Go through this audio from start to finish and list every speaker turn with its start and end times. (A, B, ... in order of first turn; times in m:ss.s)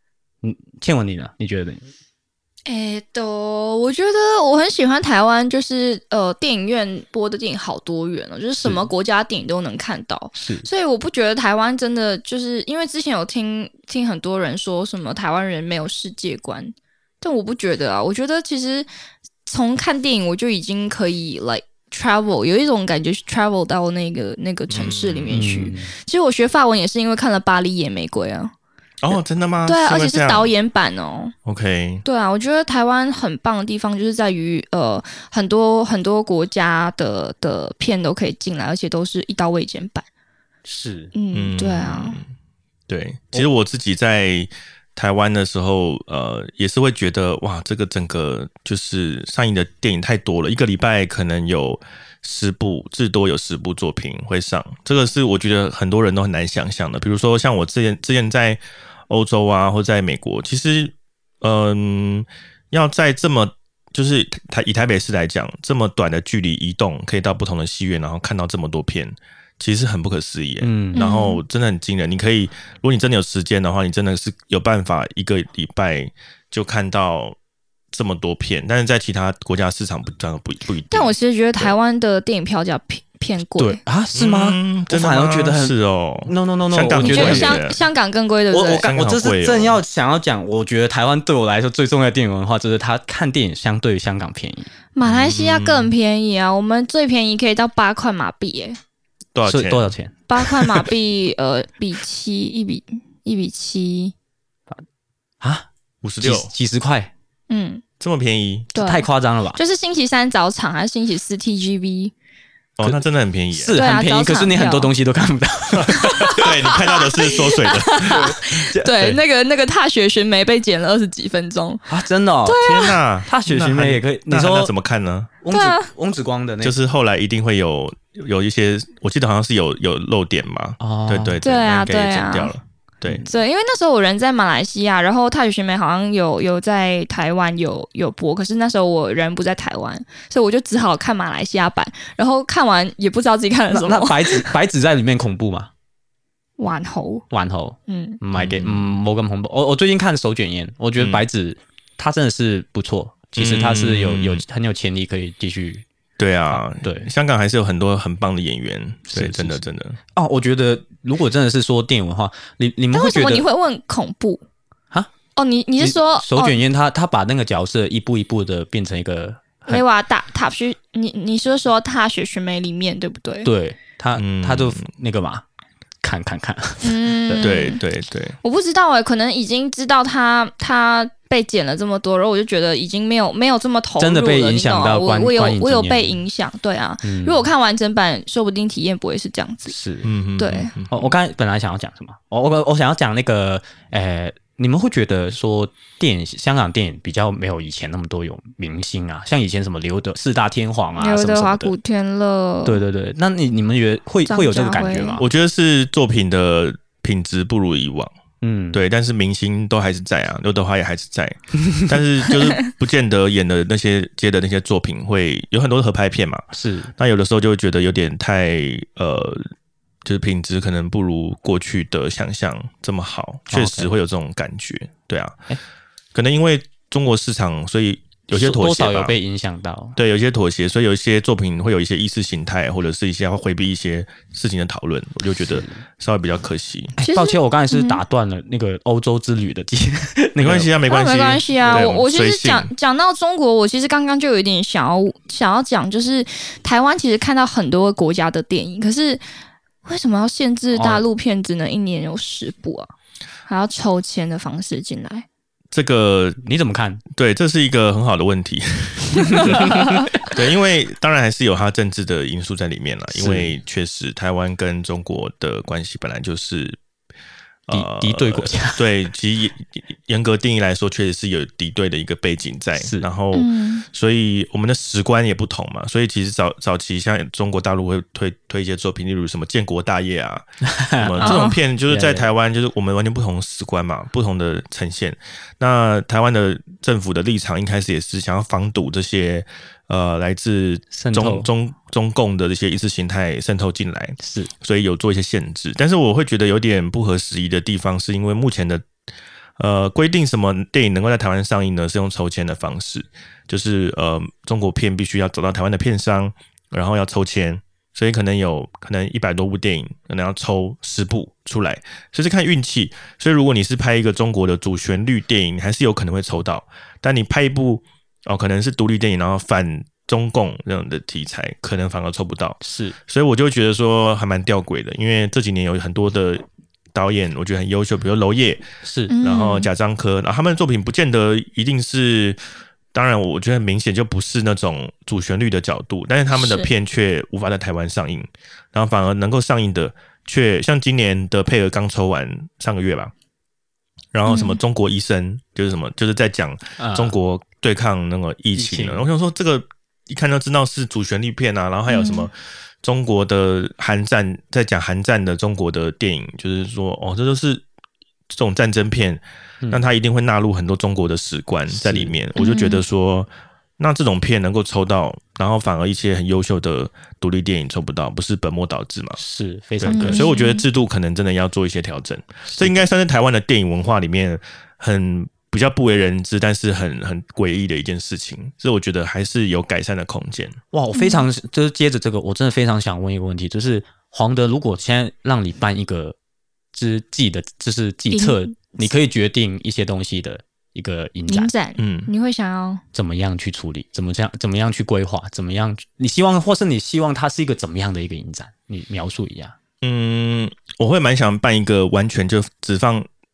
0:00.4-0:01.9 A
0:02.7-0:18.9 B
0:08.6-0:08.9 A
0:10.4-0:10.7 A
0:19.5-0:28.5 B
0:24.7-0:25.5 C
0:25.3-0:25.9 A
0:29.0-0:30.5 C
0:29.7-0:31.3 B
0:31.5-0:32.0 C
0:32.0-0:40.0 B
0:40.7-0:41.1 A
0:41.1-0:42.2 B
0:41.3-0:42.3 C
0:42.9-1:17.4 C
1:10.6-1:11.0 A
1:11.0-1:11.4 B
1:17.9-1:21.7 C
1:20.9-1:23.8 B
1:23.6-1:25.8 A
1:24.1-1:27.8 C
1:26.3-1:27.6 A
1:27.0-1:28.8 B
1:28.5-1:34.7 A
1:28.7-1:29.8 C
1:35.0-1:38.8 B
1:35.0-1:35.9 C
1:39.4-1:39.9 C
1:39.4-1:40.9 A
1:40.3-1:44.1 B
1:45.4-1:45.7 A
1:46.0-1:46.5 C
1:46.2-1:47.1 A
1:47.5-1:47.8 B
1:48.0-1:48.7 C
1:48.7-1:52.1 B
1:48.8-1:49.6 A
1:52.8-1:53.8 C
1:53.5-1:56.5 A
1:53.7-1:54.9 B
1:55.7-1:58.3 C
1:56.1-2:01.9 B
1:58.0-1:59.2 A
2:01.9-2:02.6 A
2:02.5-2:03.0 B
2:02.6-2:05.3 C
2:03.3-2:04.7 A
2:05.4-2:06.8 A
2:05.5-2:05.9 B
2:06.6-2:13.2 C
2:10.8-2:11.4 A
2:11.4-2:12.5 B
2:13.2-2:24.5 B
2:23.7-2:25.7 A
2:26.6-2:27.2 B
2:27.3-2:35.8 A
2:27.9-2:28.2 B
2:28.4-2:29.0 C
2:31.0-2:31.2 C
2:33.4-2:34.4 C
2:36.2-2:40.0 C
2:36.5-2:37.1 A
2:39.1-2:39.6 A
2:40.1-2:43.4 A
2:42.9-2:44.4 B
2:45.4-2:46.6 B
2:45.8-2:49.8 A
2:49.7-2:53.5 B
2:53.4-2:55.4 A
2:54.2-2:54.9 C
2:56.0-2:57.6 A
2:56.8-2:57.8 B
2:57.4-2:58.4 C
2:58.4-3:09.7 B
3:04.0-3:06.2 A
3:07.0-3:07.5 A
3:09.7-3:10.1 A
3:10.0-3:11.1 C
3:10.4-3:10.7 B
3:10.9-3:21.7 A
3:21.0-3:22.8 B
3:22.6-3:25.2 A
3:24.3-3:25.2 B
3:25.2-3:28.1 C
3:28.4-3:28.8 A
3:28.7-3:39.5 C
3:36.5-3:36.9 A
3:40.0-3:45.5 C
3:43.5-3:43.9 A
3:46.1-3:49.1 C
3:48.3-3:50.0 A
3:50.0-3:57.0 C
3:55.5-3:55.8 A
3:57.0-4:00.7 A
3:57.0-3:58.0 B
4:00.4-4:02.7 C
4:00.9-4:09.2 B
4:01.6-4:01.9 A
4:09.8-4:12.9 B
4:10.7-4:11.0 A
4:13.5-4:15.3 B
4:15.7-4:16.4 C
4:16.4-4:17.0 A
4:17.1-4:26.8 C
4:19.3-4:20.0 A
4:19.3-4:19.7 B
4:23.1-4:23.5 A
4:27.7-4:58.9 C
4:27.7-4:28.9 A
4:32.8-4:33.1 A
4:33.3-4:33.9 B
4:40.7-4:42.2 A
4:41.2-4:41.6 B
4:50.9-4:51.5 A
4:54.2-4:54.5 A
4:59.6-5:28.6 C
5:22.6-5:23.0 A
5:28.8-5:29.1 A
5:29.1-5:29.7 B
5:29.2-5:32.4 C
5:32.9-5:43.1 C
5:36.3-5:36.7 B
5:44.1-5:52.3 C
5:44.3-5:44.6 B
5:46.8-5:47.1 A
5:48.6-5:49.0 A
5:51.9-5:52.3 B
5:52.8-5:57.6 C
5:58.3-6:09.2 C
6:01.7-6:02.1 A
6:02.4-6:02.8 B
6:09.2-6:10.3 A
6:09.8-6:20.6 C
6:09.9-6:10.6 B
6:12.5-6:12.8 A
6:20.7-6:26.2 A
6:20.9-6:21.2 B
6:26.7-6:31.5 A
6:28.1-6:28.9 B
6:31.3-6:32.8 B
6:31.8-6:32.1 C
6:32.9-6:39.6 A
6:39.8-6:43.1 C